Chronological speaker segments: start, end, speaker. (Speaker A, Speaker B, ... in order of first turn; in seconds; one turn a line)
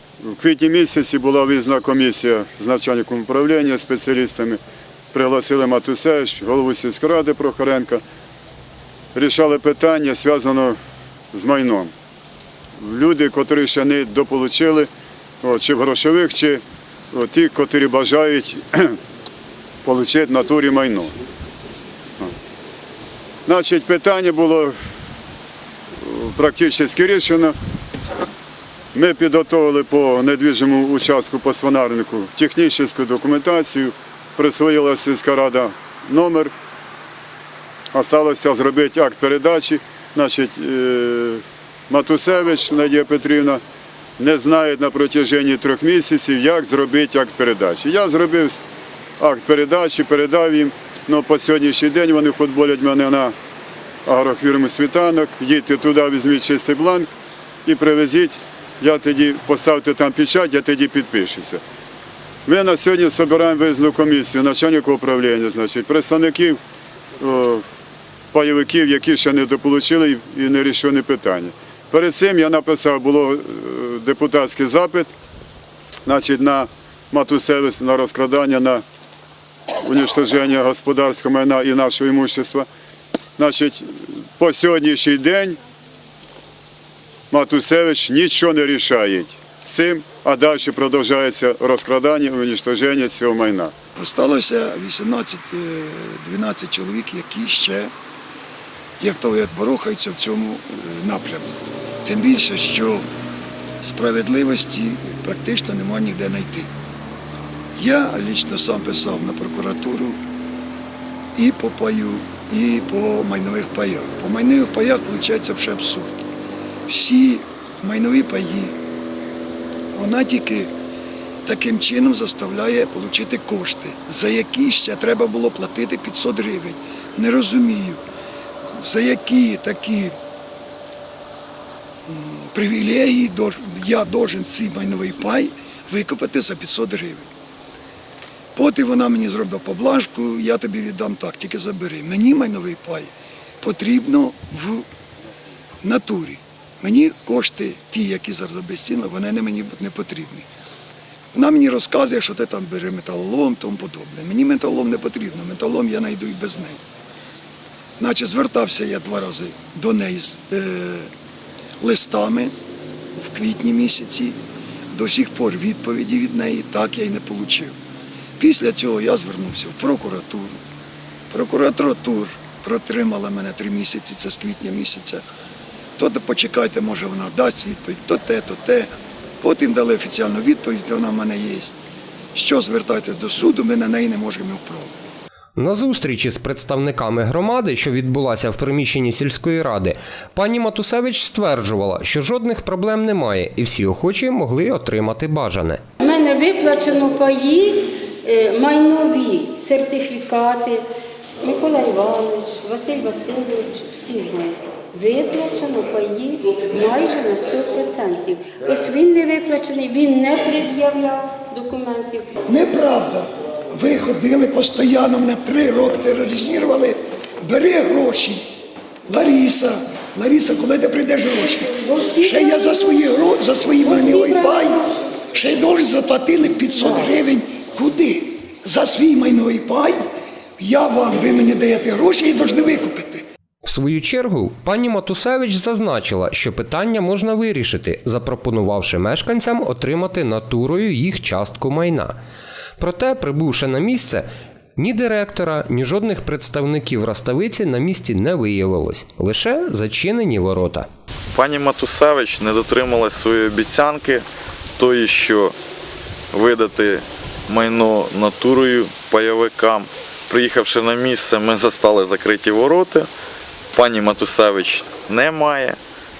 Speaker A: 0.2-4.6
Speaker A: 5.1-8.0
Speaker A: 9.1-10.8
Speaker A: 11.3-11.9
Speaker A: 12.8-14.9
Speaker A: 15.4-19.0
Speaker A: 19.8-21.1
Speaker A: 23.4-24.7
Speaker A: 26.0-27.5
Speaker A: 28.9-36.5
Speaker A: 37.9-43.6
Speaker A: 44.2-48.6
Speaker A: 49.2-53.3
Speaker A: 54.0-57.1
Speaker A: 57.6-61.6
Speaker A: 62.5-66.6
Speaker A: 67.2-67.6
Speaker A: 68.3-75.1
Speaker A: 76.0-78.8
Speaker A: 79.8-82.7
Speaker A: 83.4-85.6
Speaker A: 87.3-93.7
Speaker B: 94.0-97.9
Speaker B: 99.0-103.0
Speaker B: 103.8-106.7
Speaker B: 107.8-110.2
Speaker B: 111.3-116.2
Speaker B: 116.9-118.7
Speaker B: 119.9-120.7
Speaker B: 121.4-128.0
Speaker B: 128.7-130.1
Speaker B: 132.1-137.3
Speaker B: 138.5-143.1
Speaker B: 143.6-144.9
Speaker B: 145.8-150.5
Speaker B: 151.3-156.8
Speaker B: 158.0-161.1
Speaker B: 161.8-162.5
Speaker B: 163.2-164.4
Speaker B: 164.9-167.7
Speaker B: 168.4-170.6
Speaker B: 171.3-175.2
Speaker B: 176.0-178.9
Speaker B: 179.4-181.8
Speaker B: 182.3-184.9
Speaker C: 185.6-195.8
Speaker D: 196.0-200.8
Speaker D: 201.4-212.3
Speaker B: 212.5-218.4
Speaker B: 219.1-221.7
Speaker D: 221.7-223.1
Speaker B: 222.2-230.0
Speaker D: 223.8-224.7
Speaker B: 230.6-233.2
Speaker C: 233.6-242.2
Speaker C: 242.8-250.9
Speaker E: 251.3-254.2
Speaker E: 254.8-255.5
Speaker E: 256.3-263.1
Speaker E: 263.7-265.8